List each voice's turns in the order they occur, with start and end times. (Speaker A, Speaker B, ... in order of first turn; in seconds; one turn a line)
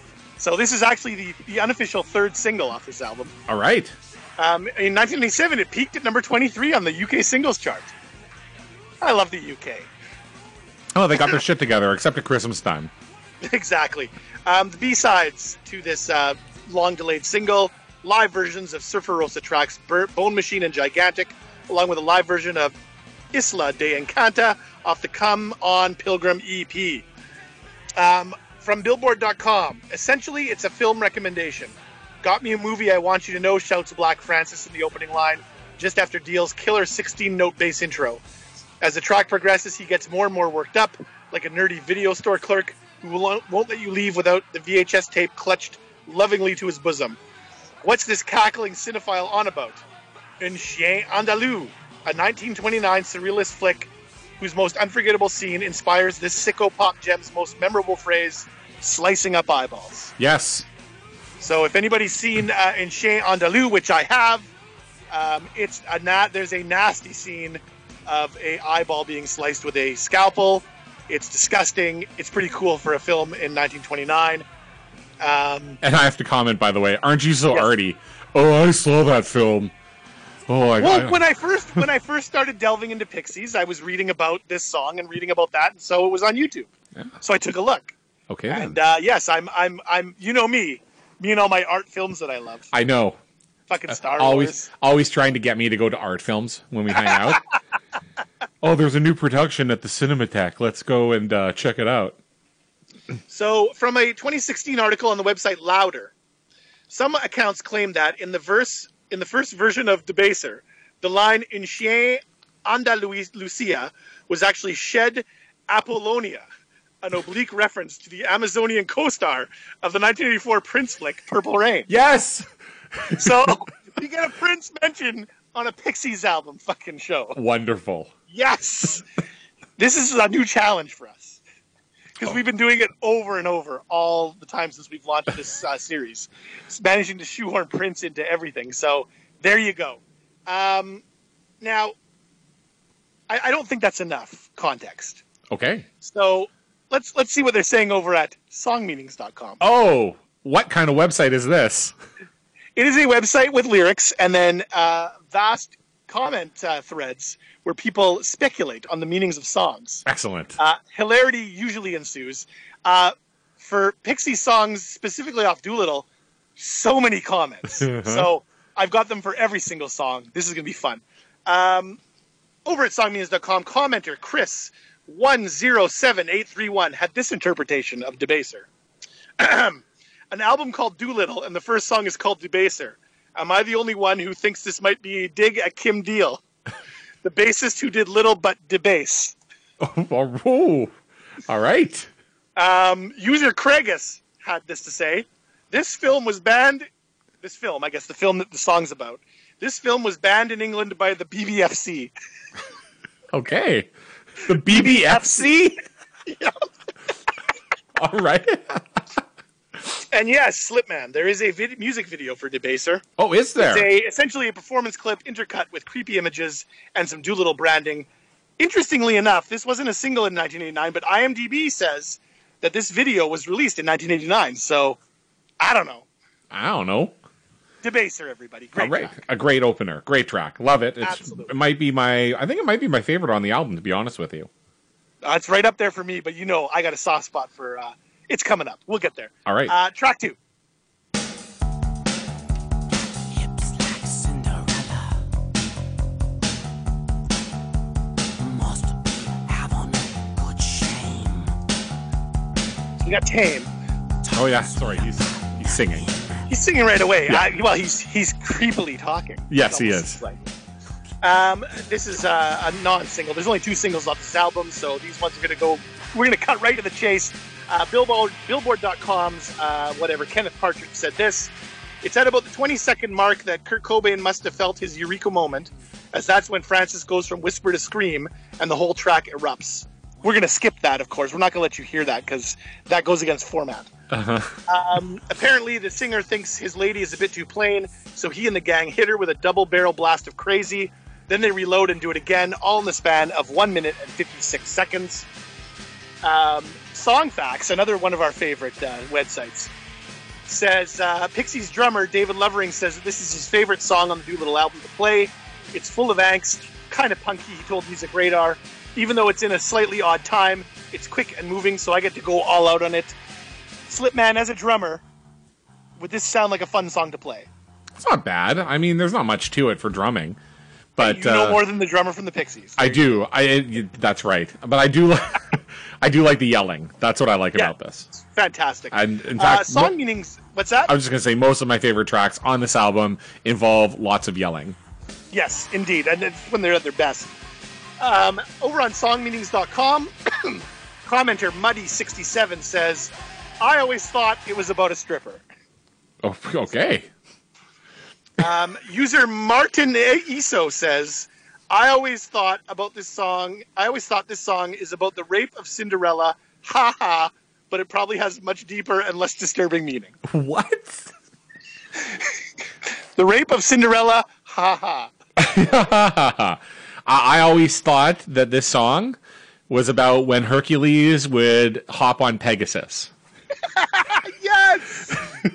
Speaker A: 0.4-3.3
Speaker B: 3.5-3.9
Speaker A: 4.4-7.9
Speaker A: 9.0-9.9
Speaker B: 10.9-12.9
Speaker A: 13.4-22.7
Speaker A: 23.3-27.1
Speaker A: 27.9-38.2
Speaker A: 38.8-47.2
Speaker A: 47.8-49.8
Speaker A: 50.4-60.1
Speaker B: 60.2-60.6
Speaker A: 61.4-64.5
Speaker A: 65.1-74.4
Speaker A: 75.2-75.8
Speaker B: 75.8-79.7
Speaker B: 80.5-81.2
Speaker A: 80.8-86.7
Speaker A: 87.2-87.9
Speaker B: 88.3-88.8
Speaker A: 88.5-92.7
Speaker B: 92.7-93.2
Speaker A: 93.7-94.7
Speaker B: 94.0-97.4
Speaker A: 97.0-97.3
Speaker B: 98.6-102.2
Speaker A: 103.3-106.1
Speaker A: 106.9-116.5
Speaker A: 117.0-121.9
Speaker B: 121.9-123.3
Speaker A: 123.1-127.4
Speaker B: 127.3-128.1
Speaker A: 128.3-129.0
Speaker A: 129.8-131.4
Speaker A: 132.2-141.0
Speaker A: 141.6-141.9
Speaker A: 143.3-145.2
Speaker B: 145.5-145.9
Speaker A: 146.0-149.6
Speaker B: 149.6-151.9
Speaker A: 152.8-160.0
Speaker B: 160.0-160.6
Speaker A: 160.6-172.0
Speaker B: 167.8-168.3
Speaker A: 172.6-178.7
Speaker A: 179.4-186.4
Speaker A: 187.2-189.3
Speaker B: 189.8-190.9
Speaker B: 191.5-192.1
Speaker A: 192.6-196.9
Speaker A: 197.4-202.1
Speaker B: 203.3-205.8
Speaker A: 204.5-205.5
Speaker A: 206.2-206.7
Speaker B: 207.9-209.0
Speaker A: 210.1-213.0
Speaker B: 213.2-213.9
Speaker A: 213.6-218.1
Speaker A: 218.6-225.0
Speaker A: 225.6-226.1
Speaker B: 226.5-227.1
Speaker A: 227.8-229.1
Speaker B: 228.8-234.5
Speaker A: 231.0-231.5
Speaker A: 235.2-240.4
Speaker B: 239.4-239.7
Speaker C: 243.3-245.2
Speaker C: 248.4-251.4
Speaker A: 253.0-253.7
Speaker B: 254.3-256.1
Speaker A: 256.5-260.4
Speaker B: 259.5-260.2
Speaker A: 261.2-283.9
Speaker B: 284.1-284.6
Speaker A: 284.7-295.3
Speaker A: 296.2-299.7
Speaker A: 300.4-313.1
Speaker A: 313.9-315.0
Speaker A: 316.0-317.5
Speaker B: 318.0-320.4
Speaker B: 321.0-321.6
Speaker A: 321.0-323.0
Speaker B: 322.8-328.1
Speaker A: 327.5-330.9
Speaker B: 328.9-329.9
Speaker B: 330.9-334.8
Speaker A: 335.3-337.3
Speaker A: 338.0-345.4
Speaker B: 346.2-347.1
Speaker A: 348.4-360.1
Speaker B: 360.3-361.1
Speaker A: 363.1-365.1
Speaker B: 365.4-369.2
Speaker B: 369.7-373.1
Speaker A: 373.6-375.2